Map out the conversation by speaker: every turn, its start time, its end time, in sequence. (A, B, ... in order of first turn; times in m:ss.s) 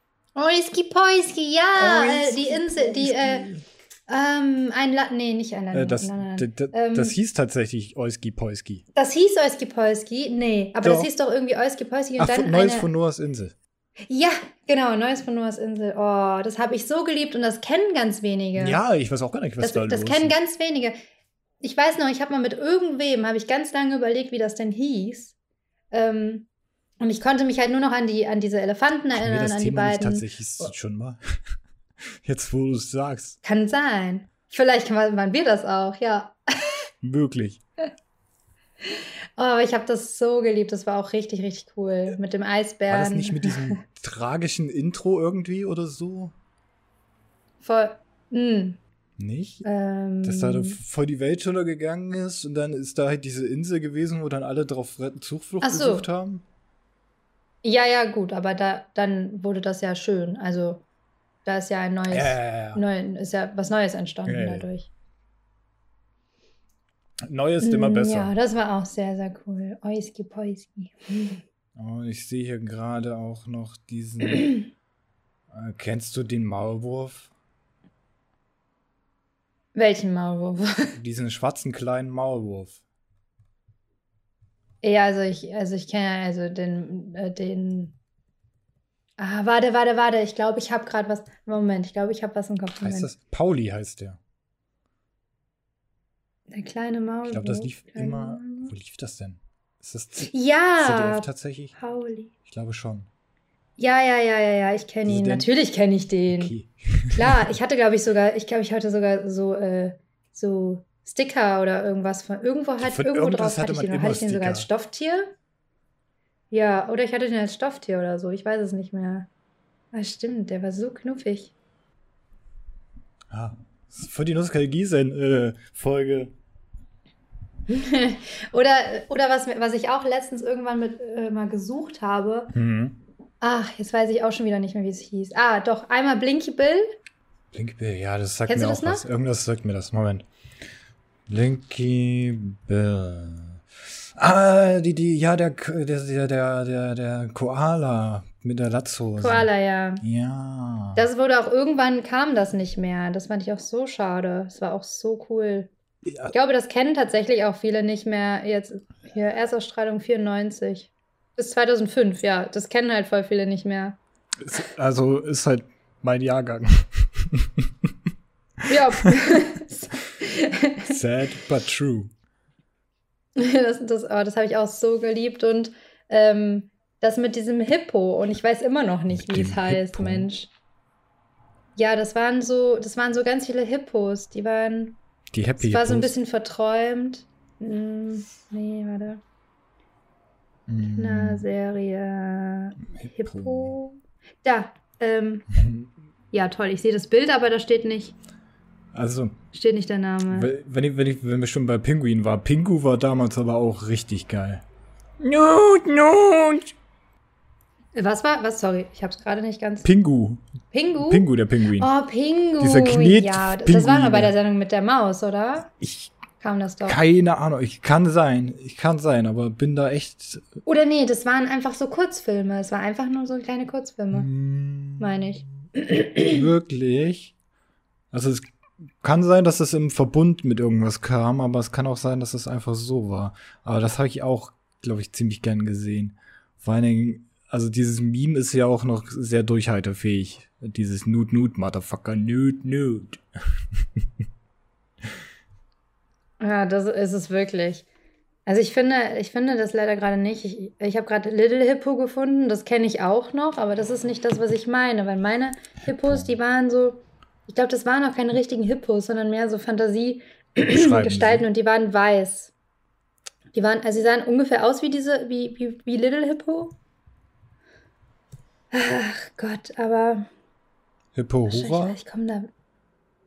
0:00.4-0:03.5 A
0:01.8-0:03.6 B
0:04.1-0:07.1 A
0:05.7-0:08.8 B
0:08.9-0:12.9 A
0:10.8-0:11.1 B
0:12.2-0:13.5 B
0:14.0-0:18.8 A
0:18.6-0:20.3 B
0:19.6-0:21.0 A
0:21.6-0:25.3 A
0:25.9-0:26.4 A
0:27.0-0:30.2 A
0:29.1-0:31.2 B
0:32.2-0:33.4 B
0:33.4-0:36.9 A
0:37.0-0:37.6 B
0:38.8-0:43.8 A
0:42.9-0:46.3 B
0:47.6-0:48.8 A
0:49.2-0:49.6 B
0:49.6-0:50.8 A
0:50.2-0:56.4 B
0:55.6-0:56.0 A
0:57.6-1:00.8 A
1:01.4-1:04.9 A
1:02.1-1:02.8 B
1:04.2-1:04.7 B
1:07.2-1:08.3 B
1:07.6-1:11.4 A
1:11.8-1:14.6 B
1:15.5-1:17.3 B
1:19.7-1:20.9 A
1:20.9-1:22.8 B
1:24.8-1:27.9 A
1:29.2-1:33.1 A
1:32.8-1:34.2 B
1:36.5-1:38.7 A
1:37.2-1:41.8 B
1:40.3-1:42.3 A
1:42.4-1:43.1 B
1:43.8-1:46.5 A
1:45.0-1:45.5 B
1:46.3-1:47.5 B
1:47.2-1:55.3 A
1:52.8-1:54.7 B
1:56.5-1:59.3 A
1:59.9-2:01.5 A
2:03.3-2:06.3 B
2:07.7-2:12.5 A
2:12.5-2:13.0 B
2:13.4-2:16.9 A
2:17.5-2:20.2 B
2:18.5-2:19.0 A
2:21.3-2:23.6 B
2:24.2-2:29.5 B
2:29.2-2:30.0 A
2:30.0-2:31.0 B
2:31.0-2:35.7 A
2:36.1-2:36.3 B
2:36.3-2:44.0 A
2:44.4-2:47.7 B
2:48.7-2:51.0 A
2:50.8-2:52.1 B
2:53.4-3:00.5 A
2:59.1-3:00.3 B
3:01.8-3:05.0 A
3:05.3-3:06.1 B
3:05.6-3:09.2 A
3:10.7-3:11.4 B
3:10.9-3:15.4 A
3:12.9-3:13.8 B
3:15.5-3:15.9 B
3:16.3-3:18.1 A
3:18.9-3:19.4 B
3:19.5-3:20.5 A
3:20.3-3:24.6 B
3:25.2-3:26.7 B
3:27.9-3:29.9 A
3:29.8-3:30.4 B
3:30.7-3:35.7 A
3:31.0-3:31.9 B
3:32.6-3:34.3 B
3:35.8-3:36.1 B
3:36.4-3:37.0 A
3:36.8-3:40.5 B
3:40.6-3:44.3 A
3:44.1-3:45.1 B
3:45.0-3:46.4 A
3:46.2-3:47.3 B
3:48.1-3:48.4 B
3:49.0-4:03.2 B
4:06.4-4:07.8 A
4:08.4-4:22.5 A
4:15.9-4:16.3 B
4:20.6-4:21.5 B
4:23.5-4:26.8 A
4:28.7-4:30.3 A
4:31.1-4:32.0 B
4:31.5-4:32.5 A